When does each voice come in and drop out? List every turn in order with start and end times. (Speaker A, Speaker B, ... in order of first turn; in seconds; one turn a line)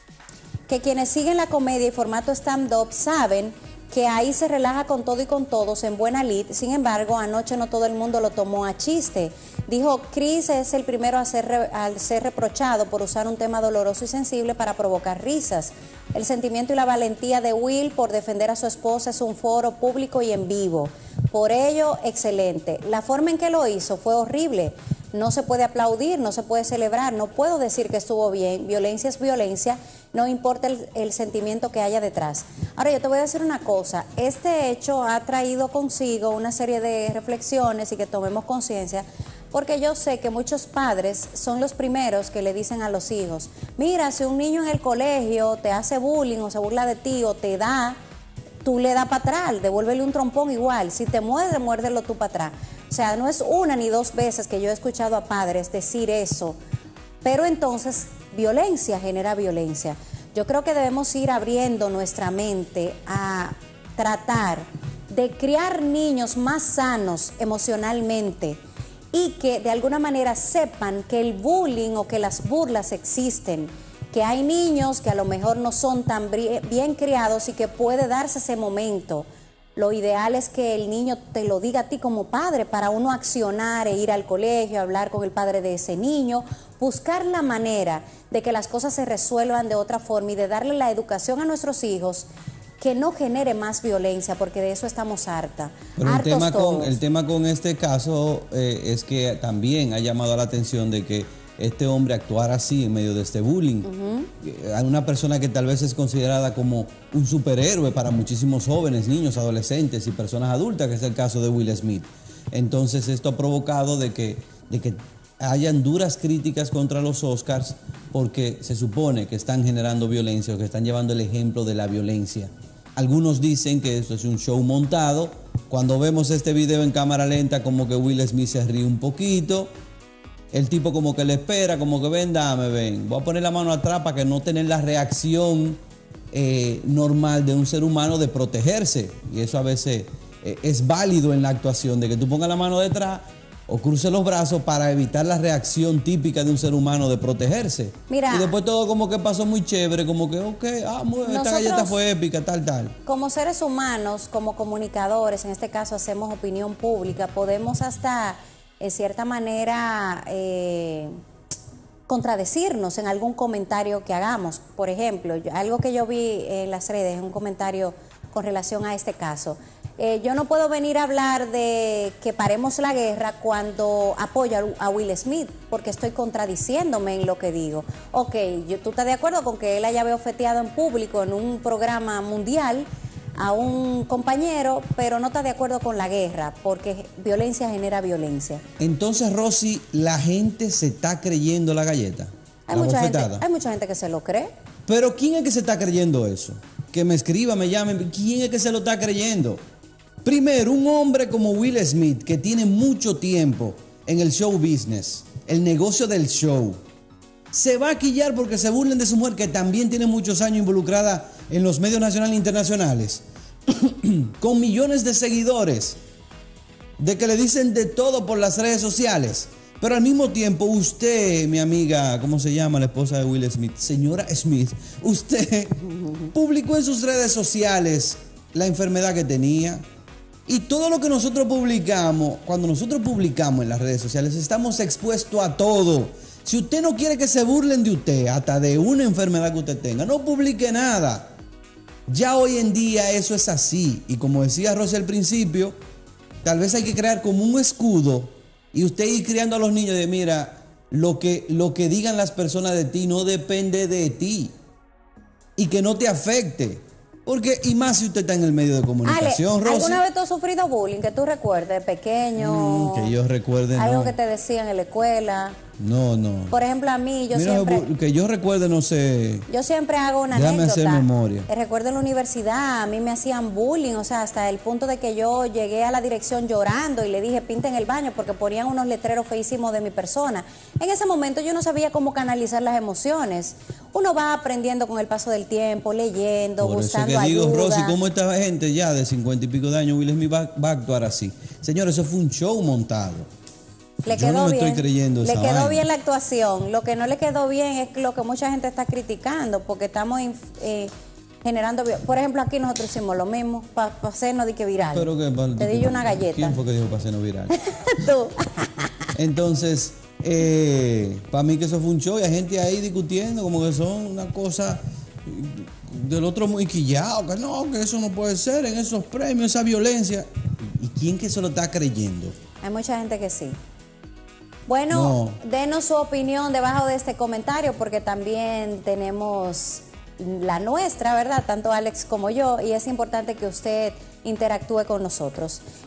Speaker A: 0.7-48.0
Speaker A: 48.6-56.6
Speaker A: 57.2-68.6
Speaker A: 69.1-92.3
Speaker A: 92.8-97.0
Speaker B: 96.0-103.9
Speaker A: 103.8-104.3
Speaker B: 104.4-129.7
Speaker B: 130.5-135.8
Speaker B: 136.3-153.0
Speaker A: 148.1-148.5
Speaker A: 151.2-152.0
Speaker A: 153.1-161.1
Speaker A: 162.1-188.6
Speaker B: 188.8-193.4
Speaker A: 192.7-194.5
Speaker B: 194.9-199.6
Speaker B: 200.2-206.8
Speaker B: 207.5-216.0
Speaker B: 217.0-229.8
Speaker B: 230.5-241.3
Speaker B: 242.1-245.8
Speaker B: 246.4-254.5
Speaker B: 255.6-260.0
Speaker A: 259.0-263.1
Speaker B: 262.4-264.1
Speaker A: 263.7-265.6
Speaker B: 265.8-266.6
Speaker A: 266.5-267.9
Speaker B: 267.3-269.5
Speaker A: 269.5-288.0
Speaker B: 270.3-271.5
Speaker B: 286.6-293.3
Speaker A: 294.0-300.9
Speaker B: 294.1-295.9
Speaker A: 301.4-306.6
Speaker B: 304.9-307.5
Speaker A: 307.6-309.1
Speaker B: 309.1-322.4
Speaker A: 322.6-323.6
Speaker A: 324.7-335.6
Speaker B: 324.9-325.4